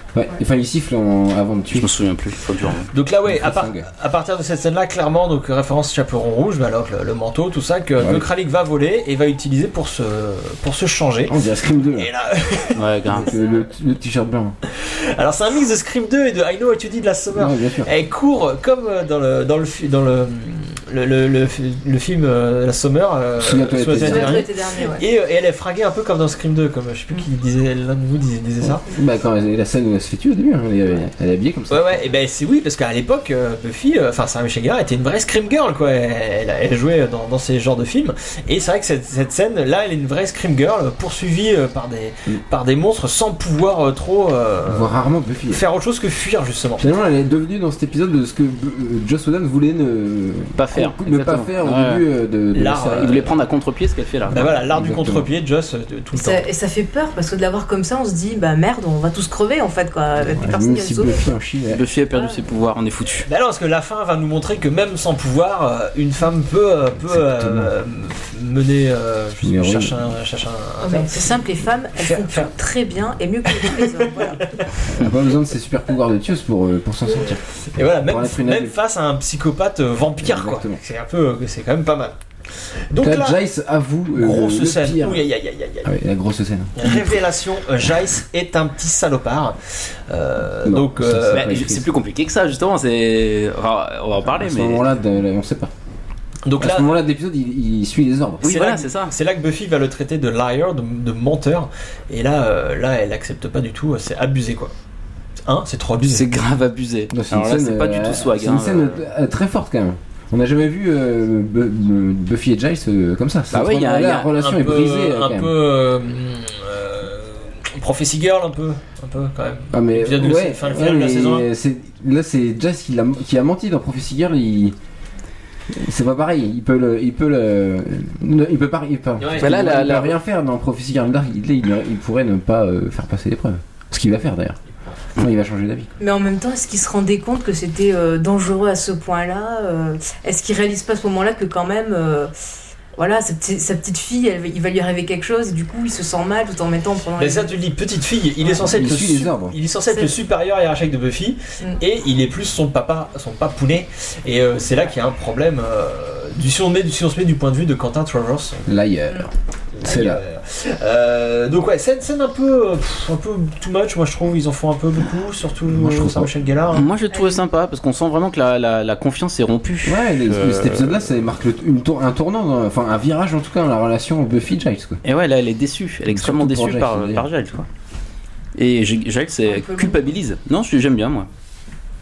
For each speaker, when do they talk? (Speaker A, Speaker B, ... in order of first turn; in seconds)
Speaker A: 0.1-2.0, 3.2-3.9, 8.0-8.3, 11.3-12.1, 13.1-14.6, 17.3-17.9, 23.4-24.4, 28.6-32.0, 44.6-45.6, 46.8-53.3, 54.3-55.3, 60.2-61.8, 67.0-67.7, 69.4-70.1, 74.9-77.4, 78.0-78.7, 80.2-80.8, 83.0-85.3, 85.8-87.2, 90.6-91.9, 94.2-95.7, 96.6-98.5, 107.1-115.5, 119.7-124.8, 125.7-134.6, 135.2-135.9, 148.5-149.6, 158.7-159.3, 159.8-160.2, 165.7-166.3, 169.8-175.0, 176.1-177.2
Speaker B: 1.7-2.9, 12.8-13.3, 50.6-52.0, 52.9-54.5, 61.7-63.3, 91.3-94.8, 98.4-99.1, 106.1-109.0, 113.5-114.3, 129.4-130.1, 166.7-171.0, 175.0-177.7, 178.6-181.3
Speaker C: 2.9-11.3, 11.9-12.8, 14.7-28.8, 31.7-44.9, 45.5-46.9, 52.5-53.1, 54.3-56.4, 63.2-71.3, 72.0-72.5, 73.6-74.6, 77.7-82.1, 82.9-83.4, 84.2-85.9, 86.8-89.6, 90.1-91.5, 96.4-96.9, 98.4-104.7, 105.5-106.3, 114.3-121.5, 129.2-129.4, 147.2-158.7, 159.8-166.8
Speaker D: 23.9-25.0, 56.1-61.3, 70.8-74.4, 136.0-142.3, 142.9-147.5, 149.9-150.1, 167.1-167.4, 179.5-180.0